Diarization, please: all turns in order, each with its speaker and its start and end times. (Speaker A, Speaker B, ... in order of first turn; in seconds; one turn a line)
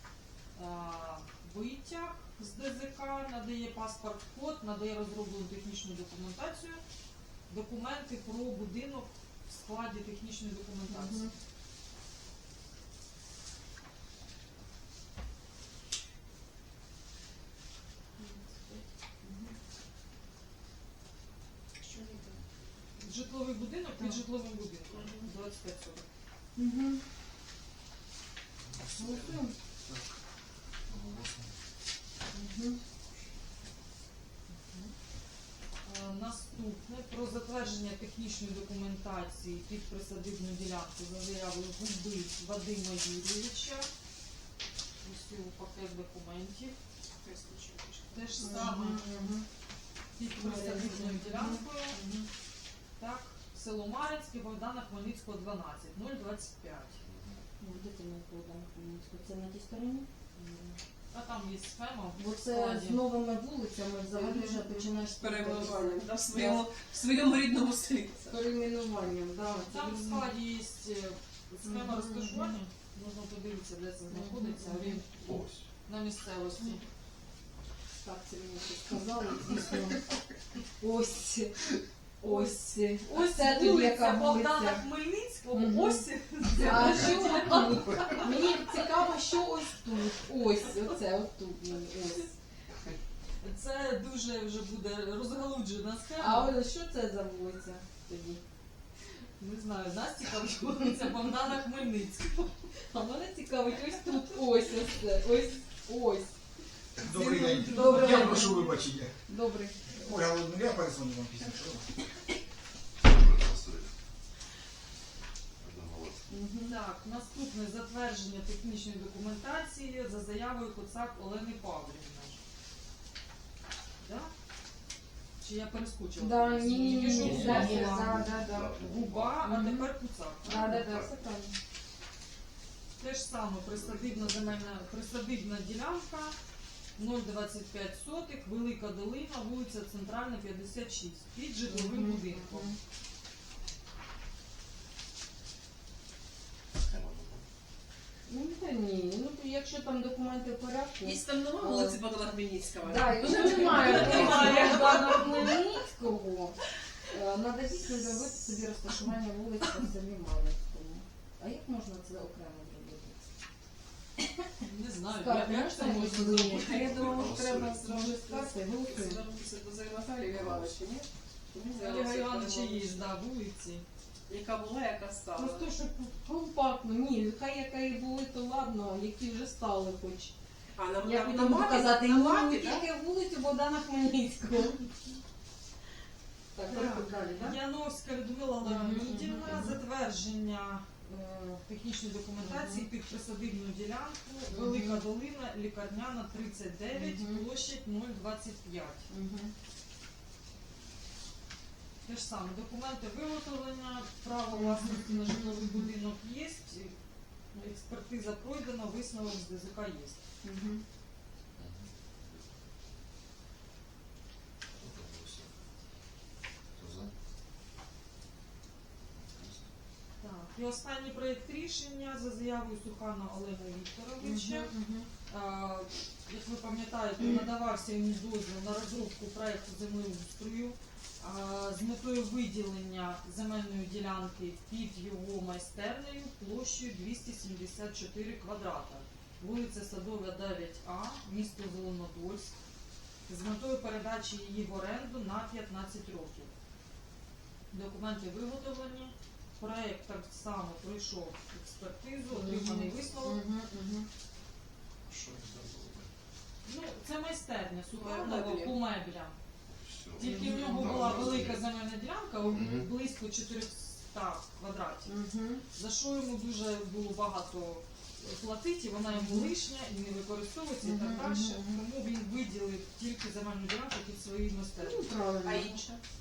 Speaker A: 0.5-6.8
Speaker A: 7.5-11.3
Speaker B: 10.9-11.3
Speaker B: 18.2-19.5
Speaker C: 21.8-22.4
Speaker A: 23.0-26.1
Speaker C: 24.9-25.3
Speaker B: 26.6-27.0
Speaker D: 28.6-30.1
Speaker B: 28.9-29.6
Speaker D: 30.9-31.5
Speaker B: 32.3-32.8
Speaker A: 34.5-34.9
Speaker A: 35.8-43.9
Speaker A: 45.0-46.8
Speaker C: 47.2-48.8
Speaker A: 48.1-49.0
Speaker B: 48.4-49.5
Speaker A: 50.1-52.0
Speaker B: 50.2-52.3
Speaker A: 53.0-57.0
Speaker D: 57.0-57.4
Speaker B: 57.6-60.1
Speaker A: 60.4-63.1
Speaker B: 62.1-66.7
Speaker C: 64.1-68.4
Speaker B: 68.3-70.3
Speaker A: 69.5-76.8
Speaker B: 71.6-72.5
Speaker B: 74.1-75.0
Speaker D: 75.2-75.7
Speaker B: 78.0-80.1
Speaker B: 80.8-81.6
Speaker B: 82.2-84.9
Speaker A: 82.2-88.5
Speaker B: 85.5-92.3
Speaker A: 93.4-96.6
Speaker B: 96.2-98.4
Speaker A: 99.4-104.3
Speaker B: 102.9-106.3
Speaker E: 107.0-109.1
Speaker A: 107.1-108.8
Speaker B: 107.3-108.7
Speaker B: 109.2-109.8
Speaker E: 109.9-111.9
Speaker D: 113.0-113.9
Speaker D: 115.6-116.3
Speaker B: 116.3-116.8
Speaker A: 116.6-122.4
Speaker A: 124.0-124.3
Speaker A: 125.4-131.0
Speaker B: 126.2-128.8
Speaker D: 127.1-127.6
Speaker D: 128.3-129.4
Speaker B: 129.4-131.6
Speaker D: 130.8-131.1
Speaker A: 133.0-136.3
Speaker D: 133.7-134.5
Speaker A: 137.0-142.7
Speaker B: 141.7-142.8
Speaker D: 146.8-147.4
Speaker B: 148.3-152.0
Speaker C: 151.0-155.4
Speaker B: 152.8-156.6
Speaker A: 153.3-155.6
Speaker B: 157.1-163.2
Speaker A: 164.6-167.0
Speaker B: 165.1-166.9
Speaker C: 166.3-173.0
Speaker D: 166.6-167.8
Speaker B: 167.8-169.2
Speaker D: 170.2-170.8
Speaker A: 171.8-173.8
Speaker C: 174.3-175.7
Speaker B: 175.3-180.3
Speaker C: 180.8-182.8
Speaker B: 181.0-184.9
Speaker B: 186.5-187.6
Speaker A: 186.7-199.1
Speaker B: 188.6-189.8
Speaker B: 192.4-192.9
Speaker B: 194.5-195.0
Speaker B: 196.9-197.5
Speaker B: 199.1-199.5
Speaker A: 202.0-206.9
Speaker B: 204.9-205.3
Speaker A: 207.5-210.2
Speaker B: 210.4-210.8
Speaker D: 211.5-212.5
Speaker D: 214.7-215.5
Speaker D: 216.8-217.1
Speaker D: 219.0-219.7
Speaker A: 220.2-224.7
Speaker B: 224.2-225.1
Speaker A: 225.3-242.5
Speaker A: 243.3-246.5
Speaker A: 247.7-253.4
Speaker B: 252.3-254.1
Speaker D: 255.1-256.1
Speaker A: 256.6-259.3
Speaker C: 257.9-258.7
Speaker D: 259.7-261.7
Speaker A: 260.2-265.1
Speaker B: 260.2-261.1
Speaker D: 262.5-262.9
Speaker B: 265.1-265.6
Speaker A: 265.7-275.1
Speaker B: 269.1-269.5
Speaker B: 270.8-271.8
Speaker B: 274.8-275.7
Speaker C: 275.4-276.0